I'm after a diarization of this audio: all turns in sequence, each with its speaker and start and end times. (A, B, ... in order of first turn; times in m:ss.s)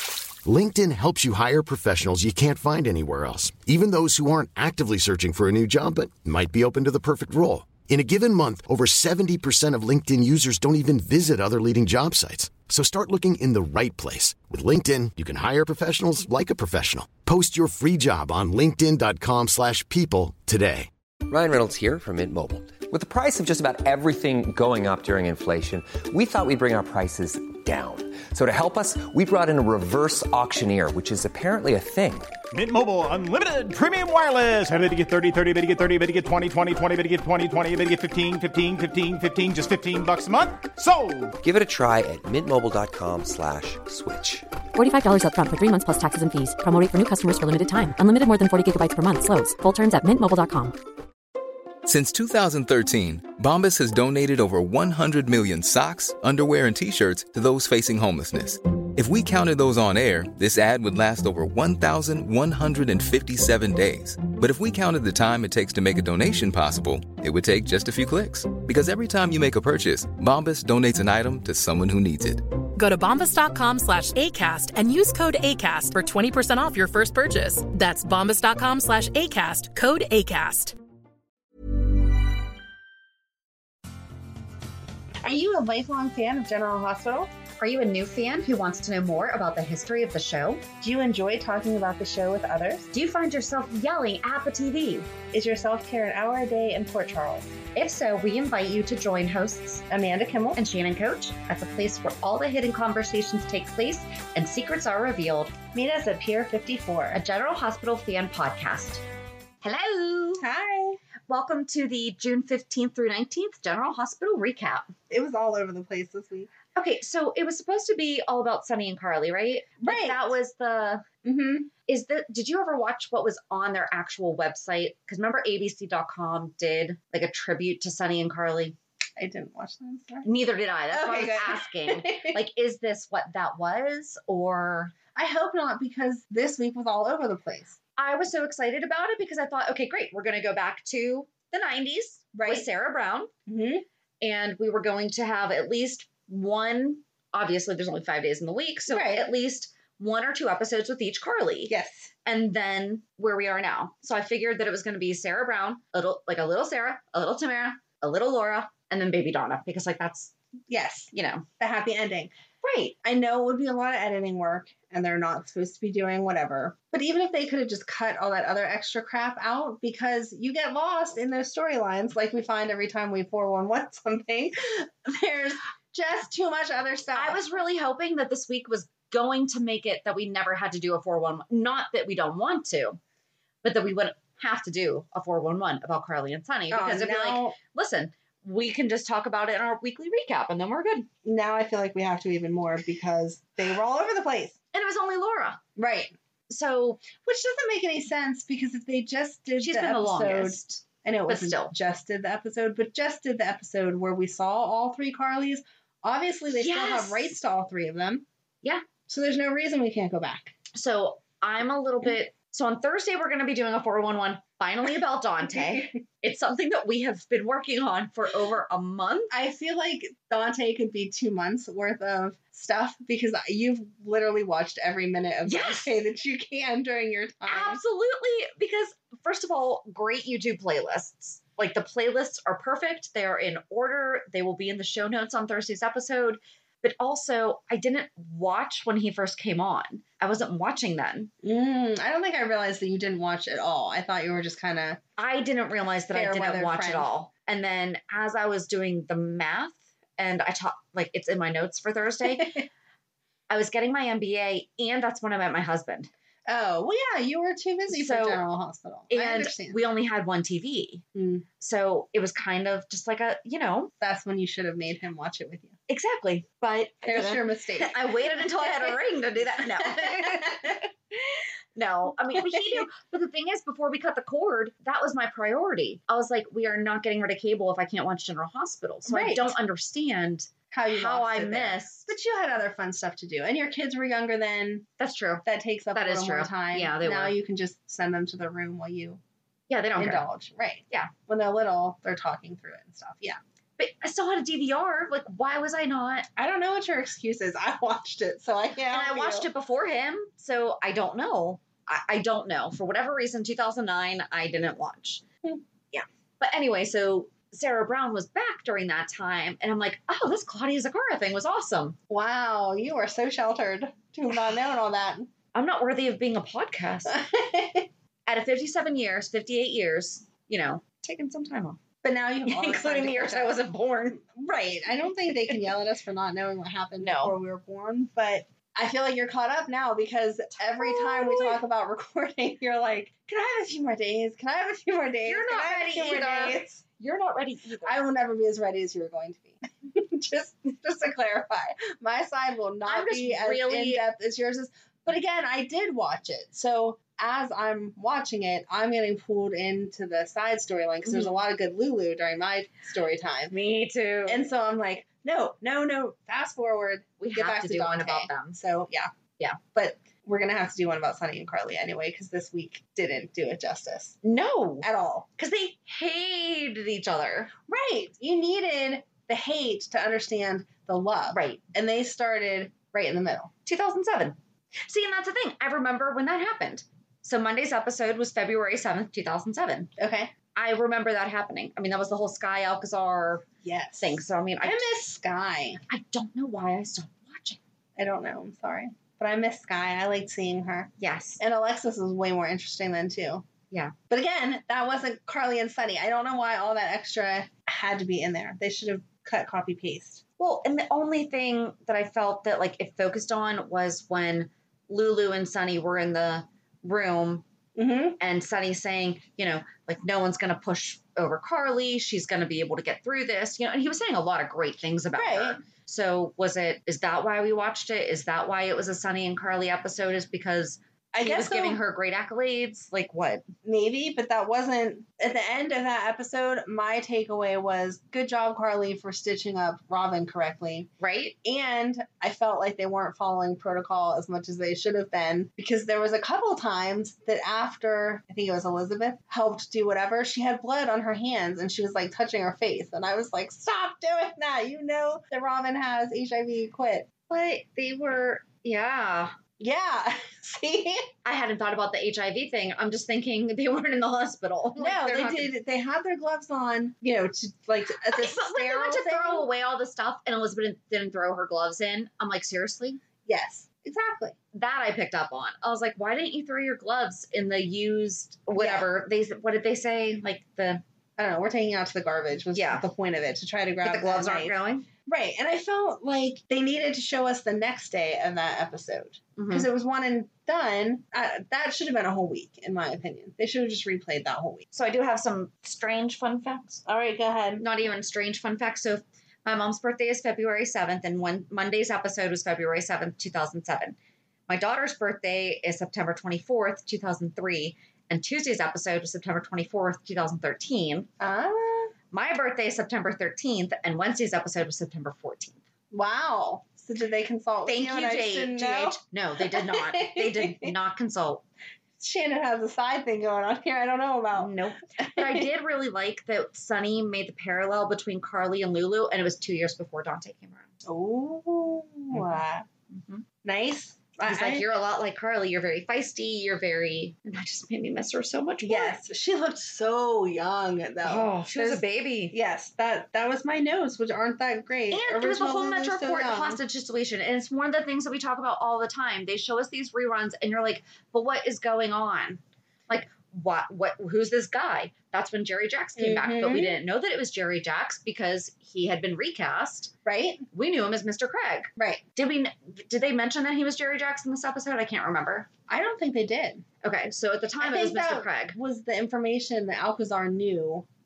0:00.4-0:20.9 A
0:21.3-0:32.4 B
0:32.5-0:41.4 C
0:41.4-0:44.5 B
0:44.7-0:50.8 D
0:51.8-1:12.4 E
1:12.8-1:20.7 F
1:25.2-1:27.3 G
1:27.6-1:30.6 H
1:30.8-1:32.9 G
1:32.9-1:35.1 H
1:35.3-1:37.5 G
1:37.7-1:39.8 H
1:39.9-1:40.6 G
1:40.5-1:45.5 H
1:45.7-1:47.2 G
1:47.1-1:49.0 H
1:49.6-1:50.4 H
1:50.4-1:51.0 G
1:51.3-1:54.9 H
1:55.1-1:56.5 G
1:56.7-2:01.0 H
1:59.8-2:00.3 G
2:01.2-2:01.7 G
2:01.8-2:08.8 H
2:09.2-2:10.2 G
2:10.2-2:14.9 H
2:10.9-2:12.4 G
2:15.1-2:17.8 G
2:18.0-2:23.3 H
2:22.3-2:22.6 G
2:23.5-2:23.8 G
2:24.2-2:31.7 H
2:28.9-2:29.3 G
2:31.7-2:32.1 G
2:32.2-2:40.3 H
2:40.7-2:42.3 G
2:41.1-2:41.4 H
2:42.6-2:42.9 H
2:43.0-2:57.4 G
2:57.1-3:03.0 H
3:03.6-3:11.1 H
3:06.7-3:07.6 G
3:11.2-3:14.6 G
3:14.7-3:15.6 H
3:15.8-3:16.1 G
3:16.5-3:17.0 H
3:17.1-3:28.2 G
3:19.6-3:21.7 H
3:26.5-3:27.3 H
3:29.1-3:30.5 G
3:30.7-3:39.3 H
3:39.3-3:47.8 G
3:45.4-3:45.9 H
3:47.4-4:01.3 H
4:01.4-4:05.0 G
4:05.2-4:12.5 H
4:06.1-4:07.1 G
4:12.2-4:12.7 G
4:13.5-4:16.1 H
4:16.4-4:19.8 G
4:17.9-4:18.4 H
4:19.1-4:21.0 H
4:21.1-4:21.4 G
4:21.6-4:23.9 H
4:24.0-4:25.7 G
4:25.9-4:30.8 H
4:27.0-4:30.8 G
4:31.8-4:42.1 H
4:32.6-4:32.8 G
4:39.1-4:39.5 G
4:40.7-4:44.9 G
4:45.0-4:47.4 H
4:45.4-4:49.2 G
4:49.7-4:50.2 H
4:50.0-4:53.4 G
4:53.8-4:56.3 H
4:56.4-4:59.5 G
4:58.9-5:05.2 H
5:05.9-5:12.0 H
5:12.1-5:15.3 G
5:15.5-5:17.1 H
5:17.1-5:17.9 G
5:18.2-5:21.8 H
5:22.0-5:23.6 G
5:22.4-5:24.2 H
5:24.2-5:36.8 G
5:27.0-5:27.3 H
5:30.7-5:31.6 H
5:35.2-5:38.0 H
5:37.8-5:53.5 G
5:42.8-5:44.0 H
5:51.0-5:51.4 H
5:53.5-5:54.4 H
5:54.3-5:59.1 G
5:57.2-5:58.6 H
5:59.7-6:04.2 G
6:04.2-6:04.9 H
6:04.8-6:05.3 G
6:05.4-6:07.5 H
6:07.7-6:13.5 G
6:11.3-6:11.6 H
6:13.6-6:19.9 H
6:20.0-6:20.3 G
6:20.5-6:23.5 H
6:23.6-6:25.8 G
6:24.0-6:24.9 H
6:25.9-6:27.6 H
6:28.0-6:33.4 G
6:31.0-6:31.4 H
6:34.1-6:40.2 G
6:40.4-6:47.4 H
6:47.8-6:48.2 G
6:48.2-7:03.4 H
6:55.1-6:55.6 G
7:01.1-7:01.8 G
7:03.6-7:10.9 G
7:11.0-7:11.3 H
7:11.4-7:27.1 G
7:27.3-7:29.3 H
7:29.6-7:31.1 G
7:31.2-7:35.5 H
7:34.8-7:39.4 G
7:38.1-7:43.0 H
7:43.2-7:44.3 G
7:44.5-7:50.8 H
7:48.6-7:48.9 G
7:51.2-8:04.6 G
7:52.5-7:52.8 H
7:53.8-7:54.9 H
7:59.4-7:59.7 H
8:04.7-8:06.8 H
8:06.8-8:07.6 G
8:07.6-8:14.0 H
8:14.5-8:21.1 H
8:21.2-8:21.9 G
8:22.1-8:25.6 H
8:25.9-8:30.7 G
8:27.6-8:31.4 H
8:32.0-8:35.4 G
8:34.4-8:40.7 H
8:40.8-8:42.6 G
8:42.1-8:42.4 H
8:42.9-8:43.2 H
8:43.4-8:44.6 G
8:44.3-8:49.0 H
8:48.6-8:56.6 G
8:51.0-8:52.3 H
8:54.9-9:09.9 H
9:06.0-9:06.8 G
9:10.0-9:10.4 G
9:10.5-9:15.5 H
9:11.8-9:12.0 G
9:15.7-9:16.6 G
9:16.8-9:18.6 H
9:17.6-9:20.8 G